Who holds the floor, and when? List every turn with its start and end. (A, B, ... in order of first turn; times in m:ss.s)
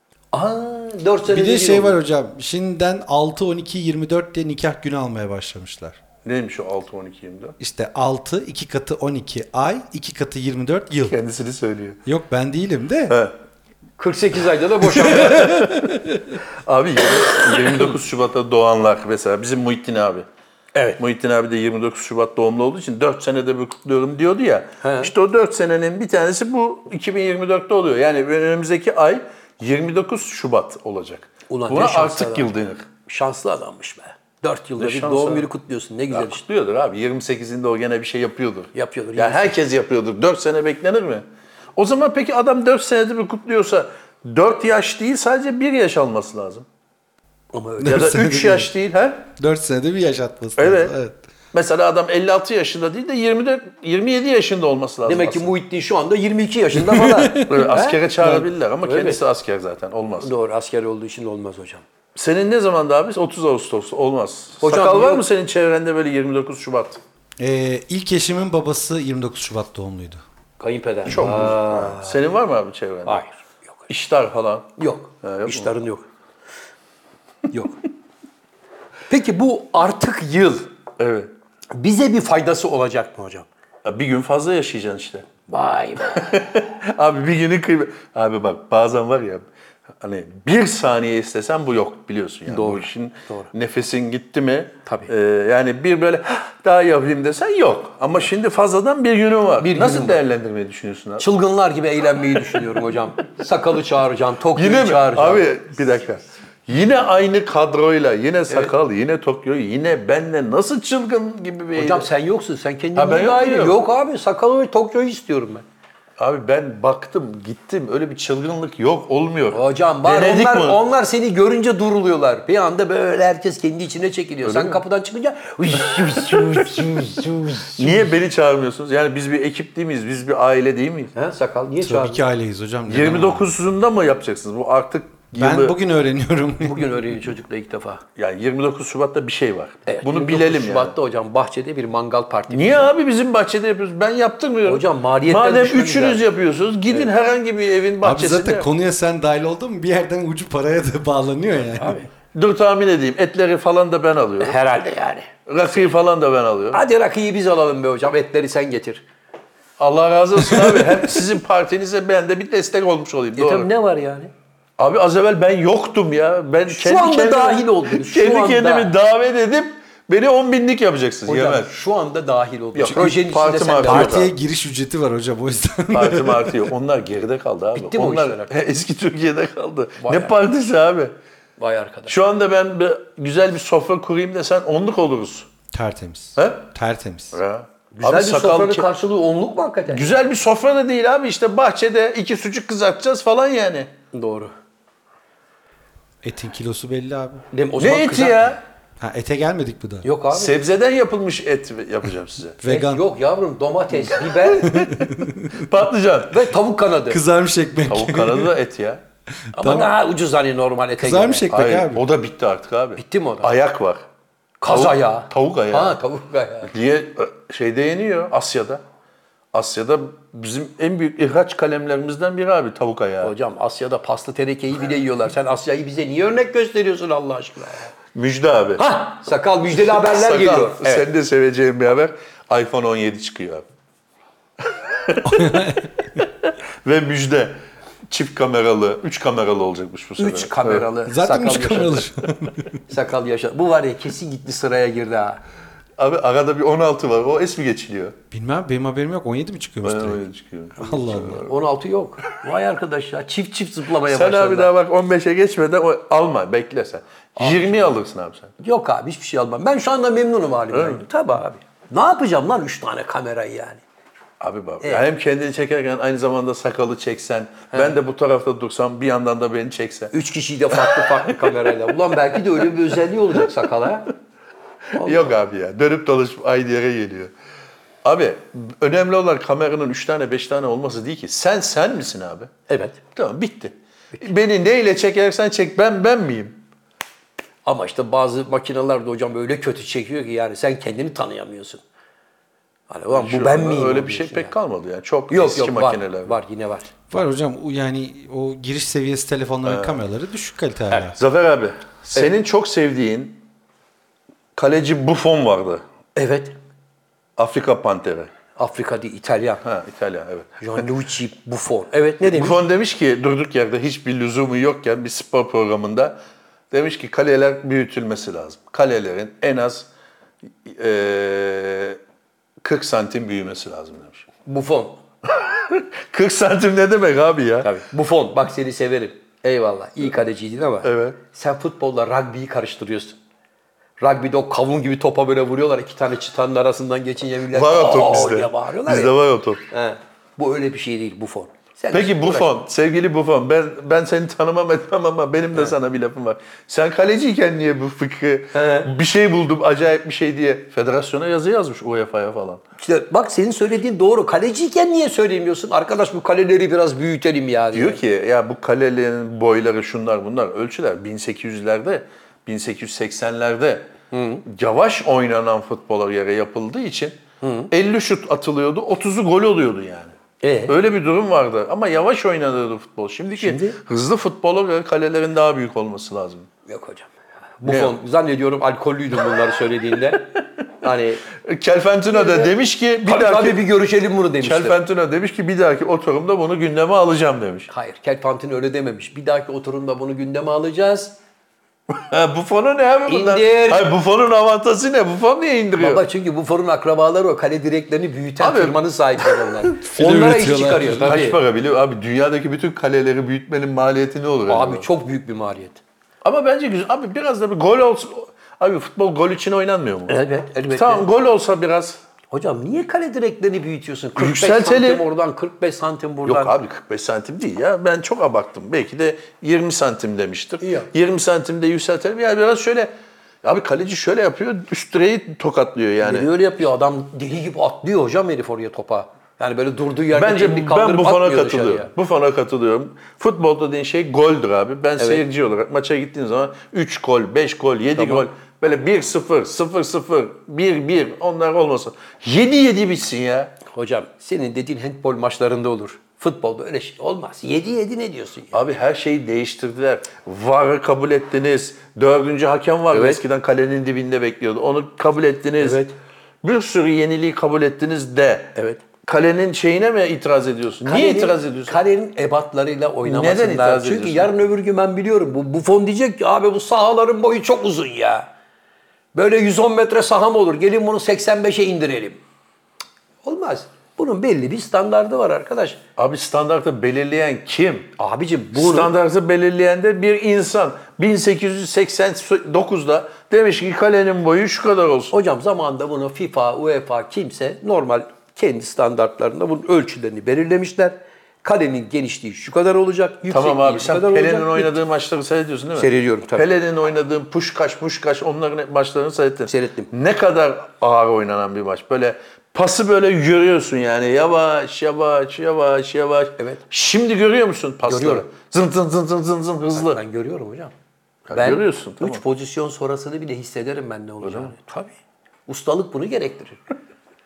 0:00.3-0:02.0 A
0:01.3-0:06.0 B
0:06.2-0:07.6 C
0:07.6-0:11.1 B
0:11.1-0:12.0 C
0:12.0-0:13.2 B
0:14.0-0:15.6 A
0:15.0-0:16.0 C
0:16.6-0:20.2 C
0:21.0-0:32.9 C
0:24.8-0:25.1 A
0:31.5-0:32.5 A
0:33.0-0:36.4 A
0:34.8-0:35.5 C
0:36.1-0:41.2 C
0:38.7-0:39.6 A
0:41.8-0:46.6 C
0:47.5-0:48.2 A
0:47.8-0:48.7 B
0:47.8-0:49.3 C
0:49.3-0:51.2 B
0:50.6-0:50.9 C
0:51.5-0:55.5 C
0:55.0-0:59.2 A
0:56.7-0:57.6 B
0:57.4-1:00.3 C
1:00.2-1:01.8 A
1:02.2-1:07.0 C
1:04.6-1:05.2 A
1:07.4-1:10.2 B
1:10.6-1:12.2 A
1:11.0-1:13.2 C
1:13.0-1:13.3 A
1:13.9-1:15.7 C
1:14.8-1:16.0 A
1:17.5-1:17.8 A
1:19.1-1:20.7 A
1:21.0-1:21.3 C
1:21.7-1:23.5 A
1:23.8-1:25.4 C
1:25.5-1:26.4 A
1:26.0-1:29.4 C
1:30.0-1:41.2 C
1:32.5-1:33.5 A
1:39.6-1:40.2 A
1:41.2-1:45.5 A
1:44.6-1:52.1 C
1:51.8-1:55.6 A
1:53.0-1:53.8 C
1:56.2-2:00.8 C
1:59.5-2:08.1 A
2:04.4-2:04.8 C
2:05.9-2:06.8 C
2:07.8-2:11.1 C
2:11.1-2:12.2 A
2:11.8-2:13.5 B
2:12.9-2:15.8 C
2:15.3-2:17.0 B
2:16.6-2:18.0 A
2:18.2-2:20.9 C
2:19.8-2:22.9 A
2:22.5-2:28.7 C
2:24.6-2:26.2 A
2:28.0-2:32.0 B
2:31.8-2:32.0 A
2:32.3-2:34.6 C
2:34.4-2:35.3 A
2:35.5-2:36.8 C
2:36.7-2:39.0 A
2:39.8-2:43.7 C
2:43.4-2:44.3 A
2:44.8-2:51.7 C
2:46.7-2:48.9 A
2:51.2-2:54.2 A
2:52.7-2:54.3 C
2:53.9-2:56.7 B
2:55.9-3:01.1 C
2:57.7-2:58.5 A
3:00.0-3:00.4 A
3:01.6-3:02.2 A
3:02.1-3:05.5 C
3:05.7-3:07.4 B
3:06.4-3:06.6 C
3:07.3-3:08.9 C
3:07.9-3:10.1 A
3:09.9-3:13.9 C
3:14.1-3:14.5 A
3:16.2-3:17.4 B
3:17.5-3:18.5 A
3:17.8-3:18.6 C
3:19.0-3:20.1 B
3:20.0-3:20.5 A
3:20.3-3:22.6 C
3:22.6-3:23.0 B
3:22.6-3:24.8 A
3:24.1-3:26.5 C
3:24.6-3:25.6 B
3:26.3-3:27.2 A
3:27.1-3:28.5 B
3:27.9-3:29.0 C
3:29.5-3:29.9 B
3:29.5-3:31.5 A
3:31.0-3:32.0 B
3:31.5-3:34.0 C
3:33.0-3:33.5 A
3:34.6-3:36.7 A
3:34.7-3:36.0 C
3:36.7-3:38.8 C
3:39.5-3:43.3 C
3:43.2-3:47.9 A
3:48.1-3:49.0 C
3:48.8-3:51.0 A
3:49.7-3:53.6 C
3:54.6-3:57.6 C
3:55.2-3:55.9 B
3:58.1-4:00.9 C
4:00.2-4:02.1 A
4:01.0-4:02.7 B
4:02.9-4:05.4 A
4:06.0-4:08.1 C
4:08.3-4:10.2 B
4:09.8-4:11.6 C
4:10.8-4:11.4 B
4:11.4-4:14.7 A
4:14.0-4:18.5 C
4:17.4-4:17.8 A
4:18.6-4:23.8 A
4:20.7-4:21.0 C
4:24.4-4:30.1 C
4:30.1-4:34.1 A
4:30.7-4:31.7 C
4:34.9-4:35.3 A
4:34.9-4:37.3 C
4:38.0-4:42.5 C
4:42.7-4:43.0 A
4:43.1-4:46.6 C
4:47.6-4:51.8 A
4:52.9-4:54.5 A
4:53.1-4:56.4 C
4:55.3-4:56.9 A
4:57.1-5:01.2 B
4:59.6-5:00.0 C
5:01.1-5:03.4 C
5:04.6-5:05.8 C
5:06.2-5:06.5 A
5:07.4-5:08.3 C
5:08.6-5:09.6 A
5:09.6-5:10.8 C
5:10.6-5:12.6 A
5:12.2-5:16.2 C
5:16.7-5:19.9 C
5:20.6-5:22.0 C
5:22.6-5:24.2 C
5:24.4-5:25.0 A
5:25.2-5:27.7 C
5:27.6-5:33.2 A
5:30.8-5:31.2 C
5:34.0-5:39.1 A
5:37.5-5:39.6 C
5:39.7-5:42.5 A
5:41.9-5:52.6 C
5:48.5-5:48.9 A
5:52.8-5:58.0 A
5:57.7-6:03.9 C
6:04.1-6:04.4 A
6:04.4-6:07.2 C
6:07.4-6:07.7 A
6:07.7-6:10.1 C
6:10.4-6:10.8 A
6:10.7-6:16.5 C
6:13.4-6:13.8 A
6:16.6-6:17.1 A
6:17.6-6:21.2 A
6:17.6-6:17.9 C
6:21.3-6:23.6 C
6:22.1-6:22.5 A
6:23.0-6:24.8 A
6:24.4-6:27.7 C
6:27.7-6:31.2 A
6:31.9-6:36.0 C
6:33.1-6:33.8 A
6:35.8-6:41.4 A
6:38.4-6:44.8 C
6:39.9-6:41.1 B
6:44.5-6:45.8 A
6:46.2-6:50.1 C
6:50.1-6:51.1 A
6:50.7-6:52.0 C
6:52.3-6:56.6 A
6:54.2-6:55.0 C
6:56.2-7:02.9 C
7:00.6-7:00.9 A
7:03.4-7:06.3 C
7:06.0-7:11.9 A
7:10.1-7:23.6 C
7:15.0-7:15.2 A
7:18.0-7:18.2 A
7:23.7-7:28.6 A
7:28.5-7:35.8 C
7:32.9-7:33.2 A
7:35.6-7:35.9 A
7:36.4-7:41.8 C
7:38.5-7:38.8 A
7:40.8-7:48.3 A
7:43.0-7:44.3 C
7:49.1-7:52.2 A
7:53.2-7:55.8 A
7:56.0-7:57.9 C
7:58.0-7:58.9 A
7:58.5-8:05.1 C
8:05.1-8:14.7 A
8:13.3-8:30.0 C
8:15.8-8:16.5 A
8:19.5-8:19.9 A
8:27.9-8:28.3 A
8:29.7-8:30.7 A
8:31.3-8:32.2 C
8:31.3-8:34.9 A
8:34.2-8:34.5 C
8:35.5-8:36.6 A